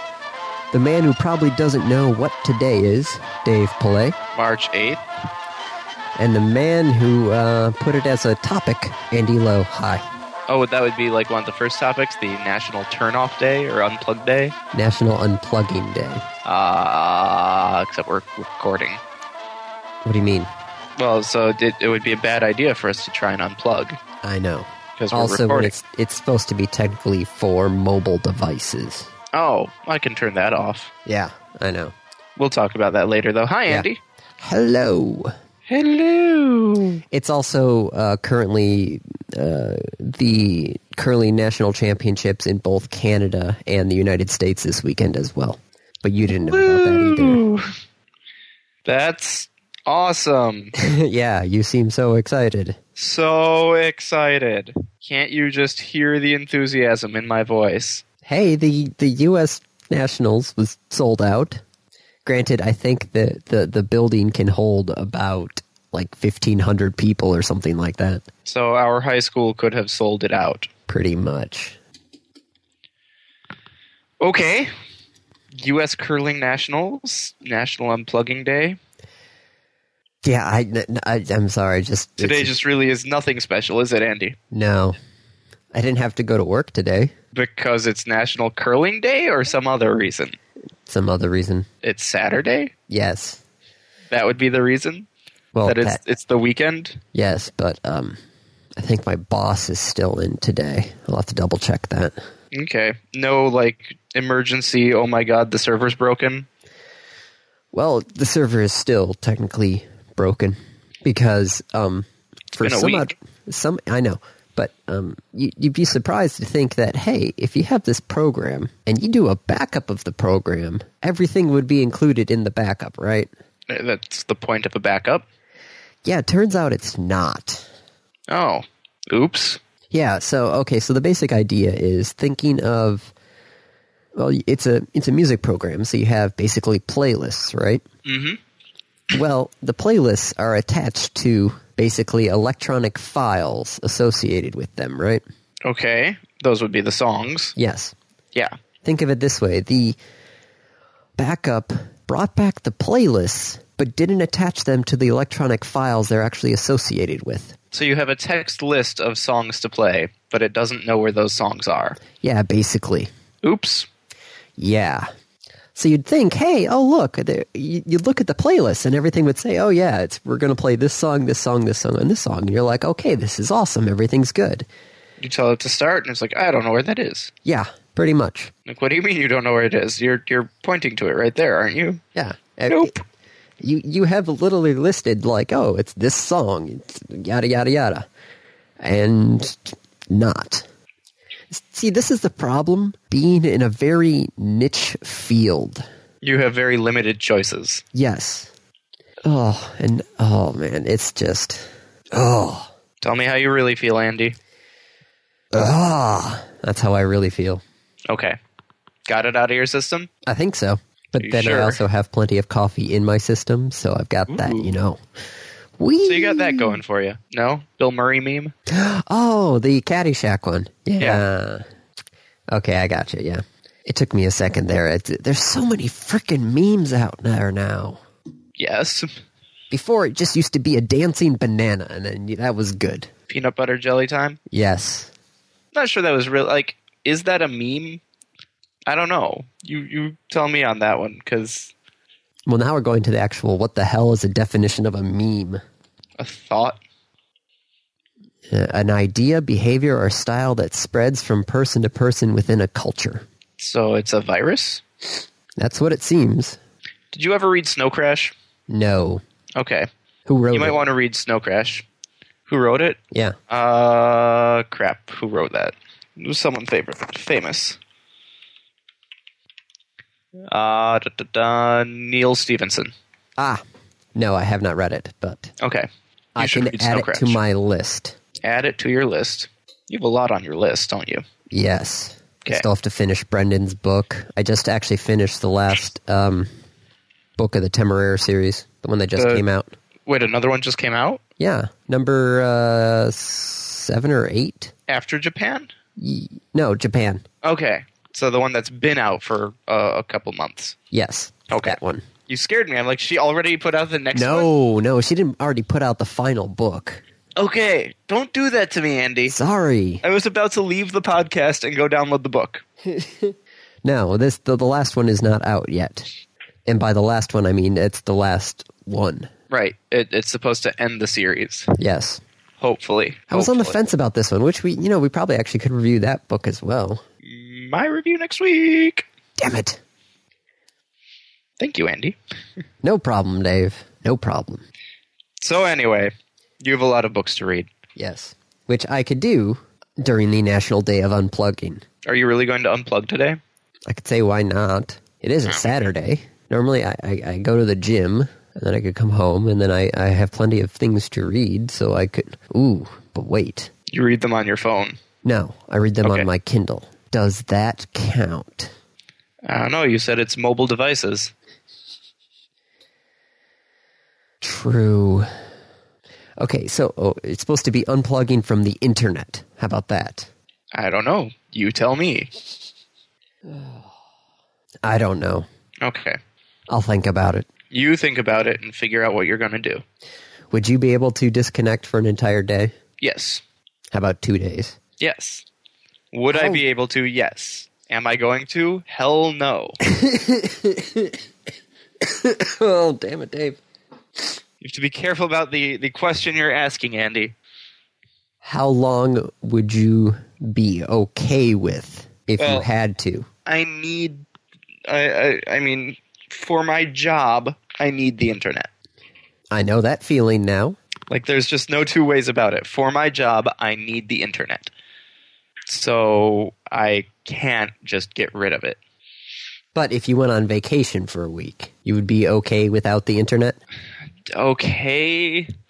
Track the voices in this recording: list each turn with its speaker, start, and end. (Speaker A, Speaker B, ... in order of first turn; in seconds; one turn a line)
Speaker A: 0.7-4.2
Speaker B: 4.3-5.0
Speaker A: 6.2-10.0
Speaker B: 10.5-14.6
Speaker A: 14.7-16.2
Speaker B: 16.4-19.0
Speaker A: 20.0-20.5
Speaker B: 21.0-24.0
Speaker A: 24.2-29.1
Speaker B: 25.0-25.7
Speaker B: 29.3-30.9
Speaker A: 31.1-31.9
Speaker B: 32.4-34.0
Speaker A: 34.4-35.3
Speaker B: 35.7-37.0
Speaker A: 37.1-47.4
Speaker B: 46.3-47.6
Speaker B: 48.9-50.7
Speaker A: 50.8-52.8
Speaker B: 53.0-58.0
Speaker A: 58.2-61.6
Speaker A: 62.2-68.2
Speaker B: 68.5-70.7
Speaker A: 70.9-71.8
Speaker B: 74.2-74.7
Speaker B: 75.5-78.8
Speaker A: 80.2-82.5
Speaker B: 82.2-84.4
Speaker A: 84.5-85.0
Speaker A: 85.7-87.1
Speaker B: 87.3-90.4
Speaker A: 90.9-91.7
Speaker B: 91.8-92.7
Speaker A: 92.9-93.4
Speaker B: 94.1-95.1
Speaker A: 95.5-96.0
Speaker B: 95.7-97.0
Speaker A: 97.1-98.2
Speaker A: 98.8-102.2
Speaker B: 102.5-106.5
Speaker A: 107.7-123.3
Speaker B: 112.6-113.1
Speaker B: 123.7-125.3
Speaker A: 126.0-127.7
Speaker B: 128.3-129.6
Speaker A: 129.9-133.1
Speaker A: 134.2-137.8
Speaker B: 138.1-138.4
Speaker A: 139.1-145.2
Speaker B: 145.6-147.6
Speaker A: 147.6-147.9
Speaker A: 148.8-150.0
Speaker A: 151.2-157.6
Speaker B: 157.7-162.0
Speaker A: 162.2-163.1
Speaker B: 163.4-163.9
Speaker A: 164.6-165.1
Speaker A: 165.8-174.7
Speaker B: 175.2-177.3
Speaker A: 177.4-178.5
Speaker B: 178.7-182.0
Speaker A: 182.2-182.9
Speaker A: 183.6-188.1
Speaker A: 188.8-190.7
Speaker A: 191.5-195.8
Speaker B: 196.2-197.8
Speaker A: 197.9-198.5
Speaker A: 199.2-202.7
Speaker B: 203.0-204.3
Speaker A: 205.5-207.6
Speaker B: 208.1-208.4
Speaker B: 209.1-210.1
Speaker A: 210.3-215.0
Speaker B: 211.2-211.8
Speaker B: 214.3-214.7
Speaker A: 215.8-216.8
Speaker B: 216.1-218.5
Speaker A: 218.7-221.7
Speaker A: 222.5-228.0
Speaker B: 228.6-229.1
Speaker A: 229.7-233.1
Speaker B: 233.3-234.4
Speaker A: 234.5-235.1
Speaker B: 235.7-238.0
Speaker B: 238.9-241.7
Speaker A: 242.5-245.6
Speaker B: 246.2-246.8
Speaker A: 248.5-253.3
Speaker B: 253.6-254.8
Speaker A: 255.6-256.6
Speaker B: 257.1-258.3
Speaker A: 258.7-259.2
Speaker B: 259.6-259.9
Speaker A: 260.3-260.8
Speaker B: 260.5-261.9
Speaker B: 262.5-263.0
Speaker B: 263.5-267.8
Speaker B: 270.5-272.9
Speaker A: 273.4-273.6
Speaker A: 274.1-275.5
Speaker B: 275.6-277.4
Speaker A: 276.4-278.2
Speaker B: 278.4-281.2
Speaker A: 281.5-286.5
Speaker A: 287.4-289.7
Speaker B: 289.2-289.4
Speaker B: 290.1-291.2
Speaker A: 291.4-294.7
Speaker B: 294.9-295.7
Speaker A: 296.0-297.2
Speaker B: 297.4-300.8
Speaker A: 300.9-302.1
Speaker B: 301.5-304.5
Speaker A: 304.1-307.0
Speaker B: 307.4-309.4
Speaker A: 309.3-310.0
Speaker B: 310.0-312.6
Speaker A: 312.9-316.1
Speaker A: 316.7-319.3
Speaker B: 319.5-321.7
Speaker A: 321.8-322.2
Speaker B: 322.6-323.8
Speaker A: 323.3-327.0
Speaker B: 327.2-329.1
Speaker A: 329.4-329.8
Speaker B: 331.6-332.2
Speaker A: 332.8-334.6
Speaker B: 335.4-337.7
Speaker A: 338.0-341.8
Speaker B: 342.1-343.4
Speaker A: 343.9-353.7
Speaker B: 345.5-345.7
Speaker B: 353.9-355.0
Speaker A: 355.2-358.7
Speaker B: 356.0-356.3
Speaker B: 359.5-361.3
Speaker A: 364.4-365.3
Speaker A: 366.4-370.3
Speaker B: 370.7-372.3
Speaker A: 373.5-373.9
Speaker A: 374.8-375.5
Speaker B: 375.8-376.2
Speaker A: 376.7-377.5
Speaker B: 377.7-379.8
Speaker A: 380.5-382.7
Speaker B: 383.0-383.4
Speaker A: 383.9-384.8
Speaker B: 385.0-385.4
Speaker B: 386.1-389.8
Speaker A: 386.3-386.6
Speaker A: 389.8-391.2
Speaker A: 392.0-393.6
Speaker B: 394.6-397.4
Speaker A: 398.4-403.3
Speaker B: 402.4-402.7
Speaker B: 403.5-404.3
Speaker B: 404.9-408.7
Speaker A: 409.5-410.8
Speaker B: 411.1-414.7
Speaker B: 415.7-418.8
Speaker A: 419.8-423.6
Speaker B: 424.3-425.5